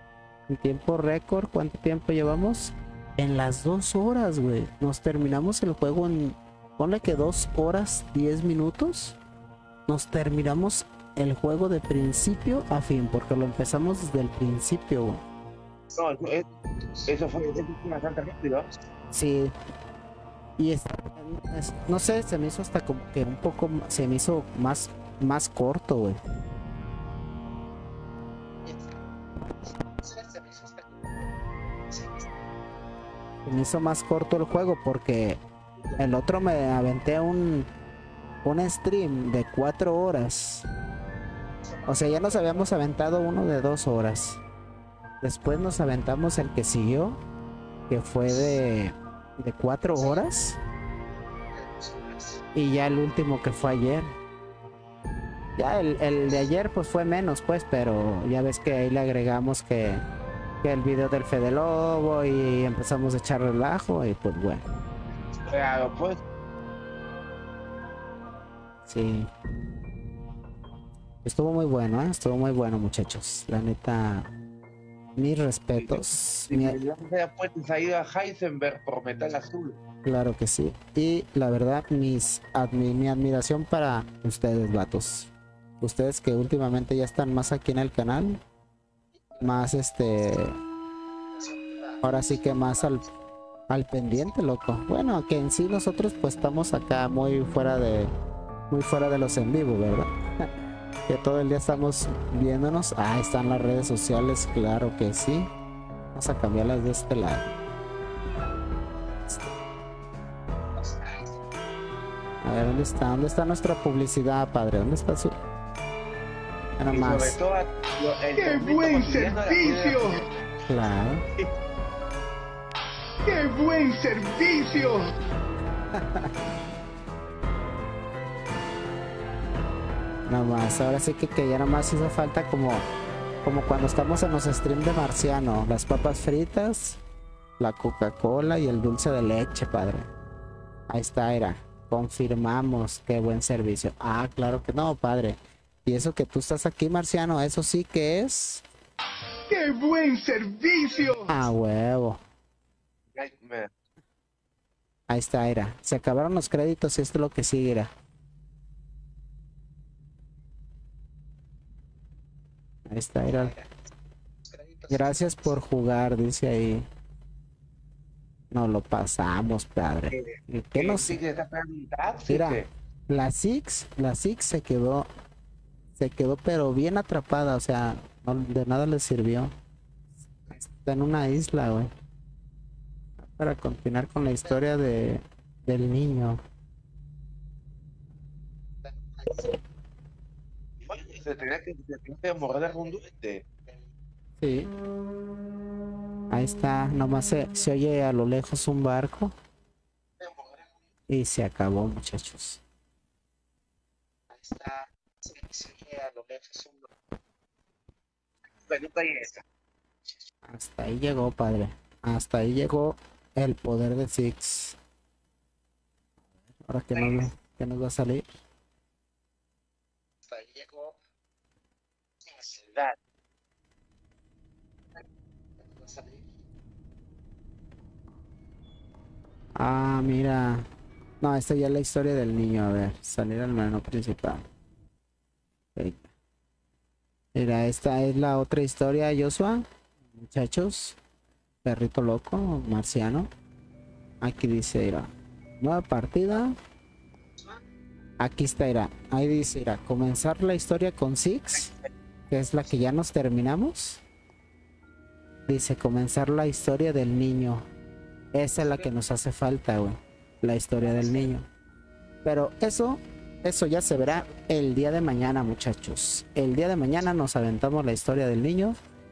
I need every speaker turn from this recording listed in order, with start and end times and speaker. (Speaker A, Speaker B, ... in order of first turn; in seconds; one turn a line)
Speaker A: 0.5-9.2
Speaker A: 9.9-15.2
Speaker B: 15.9-16.5
Speaker B: 17.0-18.7
Speaker A: 19.1-19.5
Speaker A: 20.6-26.2
Speaker A: 30.1-30.7
Speaker A: 33.5-35.4
Speaker A: 36.0-37.7
Speaker A: 38.4-40.6
Speaker A: 41.8-44.4
Speaker A: 45.2-47.2
Speaker A: 47.9-50.6
Speaker A: 52.5-54.1
Speaker A: 55.6-60.0
Speaker A: 60.6-64.6
Speaker B: 65.4-66.2
Speaker A: 68.9-69.3
Speaker A: 71.2-74.3
Speaker A: 75.2-76.8
Speaker B: 75.8-79.8
Speaker A: 80.0-85.3
Speaker A: 85.8-88.4
Speaker A: 89.4-90.6
Speaker A: 92.0-93.0
Speaker A: 93.7-98.1
Speaker A: 98.7-100.1
Speaker A: 101.1-105.5
Speaker A: 106.1-107.5
Speaker A: 110.8-111.2
Speaker A: 112.4-115.4
Speaker A: 116.8-117.4
Speaker B: 116.9-120.3
Speaker C: 118.3-120.2
Speaker A: 120.7-121.2
Speaker C: 123.2-125.1
Speaker A: 125.9-126.3
Speaker A: 130.3-132.8
Speaker A: 133.4-137.0
Speaker A: 137.6-140.1
Speaker A: 140.9-148.6
Speaker C: 149.5-151.4
Speaker A: 151.3-152.2
Speaker B: 153.1-153.7
Speaker A: 155.1-157.9
Speaker A: 162.9-163.6
Speaker A: 164.9-166.9
Speaker A: 168.5-171.2
Speaker B: 170.1-172.7
Speaker A: 172.3-175.1
Speaker A: 176.0-179.5
Speaker A: 180.5-181.9
Speaker A: 183.2-186.4
Speaker B: 190.8-193.5
Speaker A: 194.4-194.7
Speaker A: 196.3-199.3
Speaker A: 201.1-202.6
Speaker A: 204.4-204.7
Speaker A: 205.5-206.6
Speaker B: 208.7-209.4
Speaker A: 210.5-214.8
Speaker A: 216.7-218.2
Speaker B: 222.4-222.9
Speaker A: 229.6-230.7
Speaker A: 231.2-234.4
Speaker A: 235.8-236.1
Speaker A: 237.3-241.0
Speaker A: 241.6-243.3
Speaker A: 244.2-246.6
Speaker A: 248.2-251.7
Speaker A: 252.3-254.0
Speaker A: 255.5-257.6
Speaker A: 258.3-261.4
Speaker A: 262.2-268.8